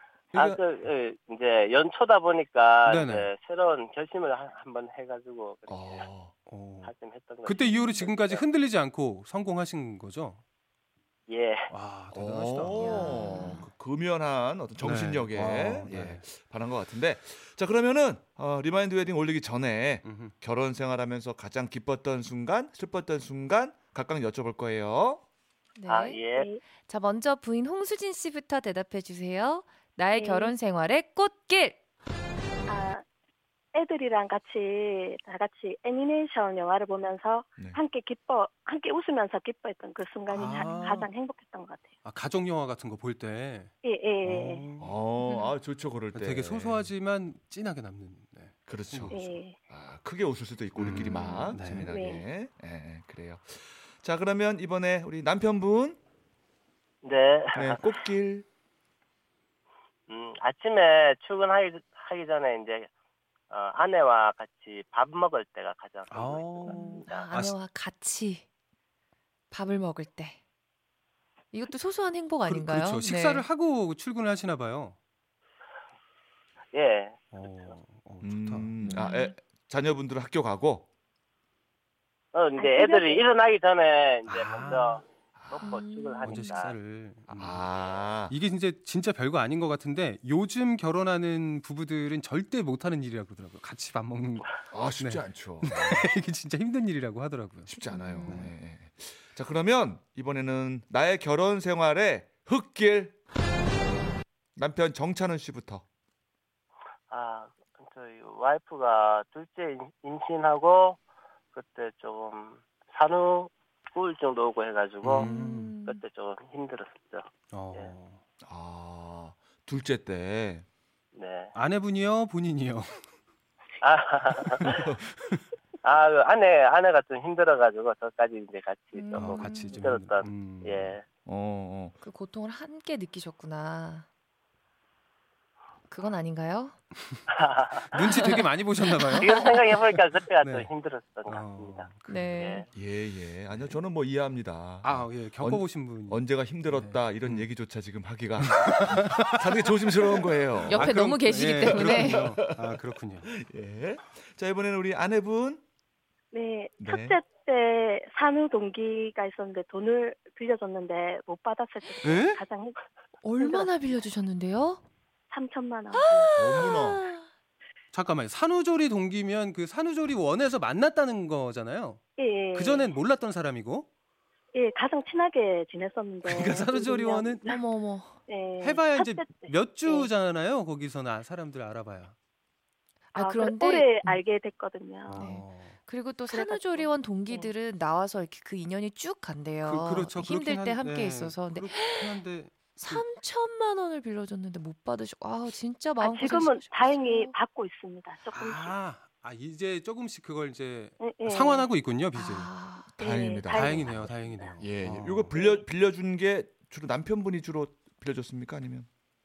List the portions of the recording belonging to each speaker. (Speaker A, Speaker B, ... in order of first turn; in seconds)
Speaker A: 0.3-6.1, 6.8-8.4, 11.3-11.7, 25.9-26.5, 57.0-58.0, 60.1-62.9, 63.5-67.3, 76.7-77.7, 82.3-86.8, 107.1-111.0, 111.5-115.3, 115.8-117.9, 121.1-121.5, 123.8-124.9, 125.8-131.0, 137.3-138.3, 139.1-142.7
Speaker B: 0.3-0.6, 5.7-6.3, 12.1-25.2, 44.8-46.9, 48.7-56.0, 57.5-58.5, 78.2-80.9, 85.4-85.6, 87.3-88.3, 94.7-96.1, 97.7-103.2, 104.6-105.8, 118.4-120.6, 131.2-132.0, 142.7-150.9, 151.7-155.6, 156.8-157.2, 166.3-167.0, 203.0-208.9
Speaker C: 2.9-3.3, 6.5-6.9, 7.5-10.4, 11.7-13.6, 14.8-16.2, 20.0-20.3, 40.3-41.1, 42.0-43.7, 44.2-45.0, 46.1-49.2, 50.8-51.9, 66.1-67.6, 72.5-75.0, 77.3-79.0, 84.3-85.0, 86.2-87.7, 88.3-97.7, 98.2-98.5, 115.2-115.7, 117.5-118.2, 121.5-123.0, 129.1-131.0, 137.9-139.3, 140.4-140.7, 141.3-142.5, 144.8-147.5, 148.4-149.4, 150.7-153.3, 162.0-162.4, 167.9-172.0, 172.5-173.9, 176.2-177.5, 178.6-182.1, 185.1-185.8, 189.6-193.1, 198.3-202.5, 203.5-205.3
Speaker D: 12.8-13.7, 25.8-26.2, 26.8-31.8, 45.2-45.5, 51.0-51.6, 66.7-68.5, 69.5-70.4, 71.5-73.5, 78.9-79.3, 85.6-86.6, 97.9-98.5, 115.2-116.0, 128.9-129.8, 132.0-134.1, 135.9-136.8, 138.0-138.4, 139.1-139.5, 142.1-142.6, 150.7-152.3, 163.2-164.8, 165.9-167.2, 177.4-178.2, 183.1-184.2, 185.1-192.2, 192.8-197.3, 202.1-202.9
Speaker E: 26.3-26.6, 30.1-30.5, 32.7-33.0, 33.7-41.9, 43.8-44.6, 49.1-49.6, 51.8-52.2, 82.6-83.2, 156.3-162.8, 163.4-163.7, 165.3-166.3, 172.2-172.9, 174.5-177.6, 178.3-180.1, 183.2-185.3, 186.3-187.5, 196.0-198.8, 201.0-201.7, 203.0-204.5, 205.3-205.6